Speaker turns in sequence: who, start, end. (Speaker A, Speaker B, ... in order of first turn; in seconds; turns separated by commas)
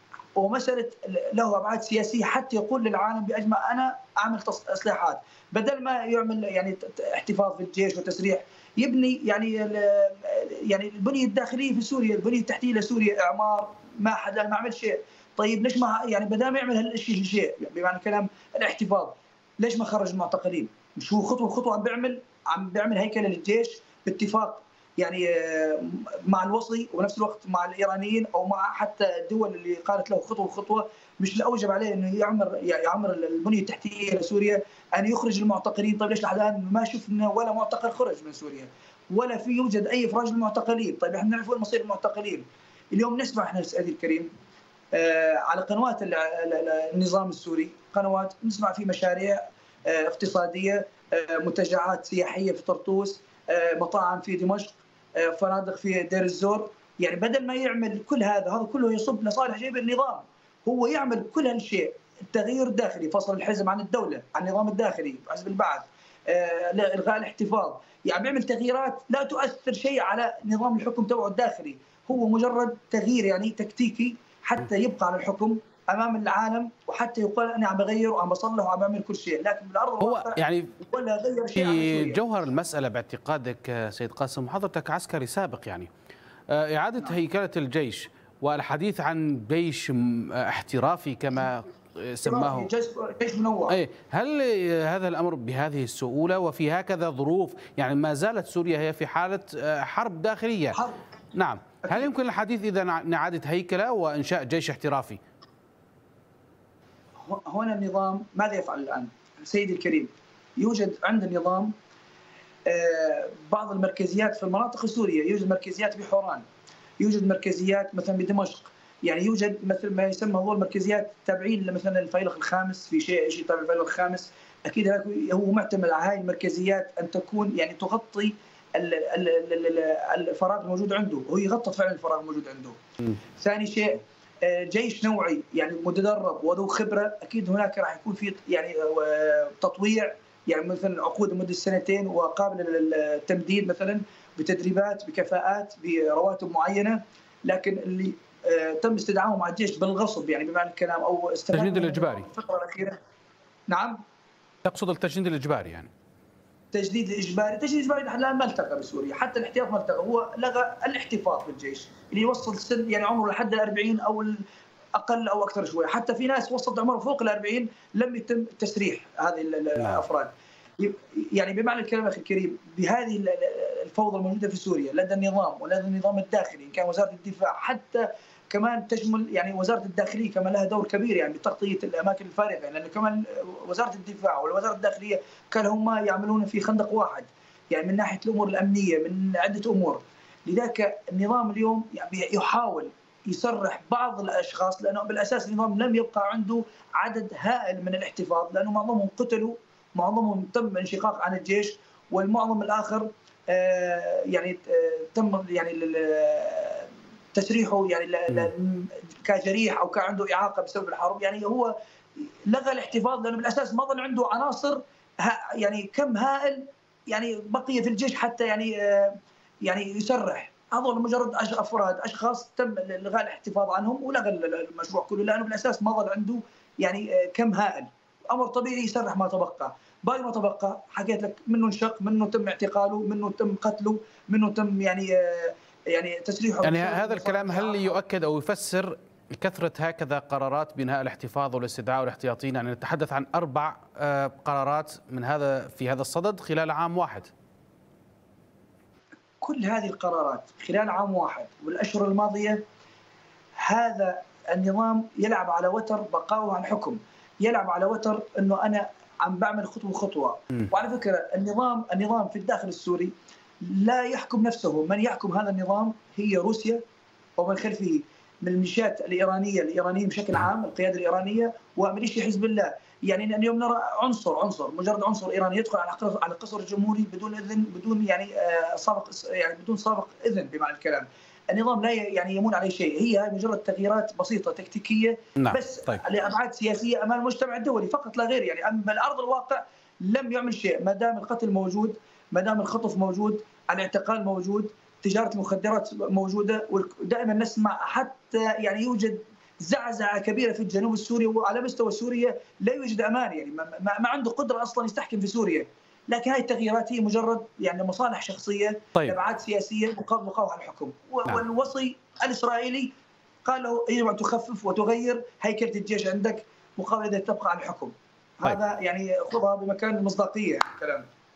Speaker A: 0.3-44.3, Speaker A: 44.9-82.2, Speaker B: 80.0-80.7, Speaker B: 81.6-85.9, Speaker B: 86.5-92.7, Speaker A: 92.2-93.8, Speaker B: 93.7-100.8, Speaker A: 100.7-101.0, Speaker B: 101.3-105.2, Speaker A: 101.8-102.1, Speaker A: 107.2-111.7, Speaker A: 112.7-116.4, Speaker A: 117.0-132.8, Speaker A: 133.4-153.0, Speaker B: 151.5-152.3, Speaker A: 153.7-154.0, Speaker B: 154.7-155.9, Speaker A: 156.7-164.4, Speaker A: 164.9-238.0, Speaker B: 236.6-247.3, Speaker A: 249.4-252.6, Speaker A: 253.6-266.8, Speaker A: 267.4-312.9, Speaker B: 285.4-285.9, Speaker A: 313.4-321.1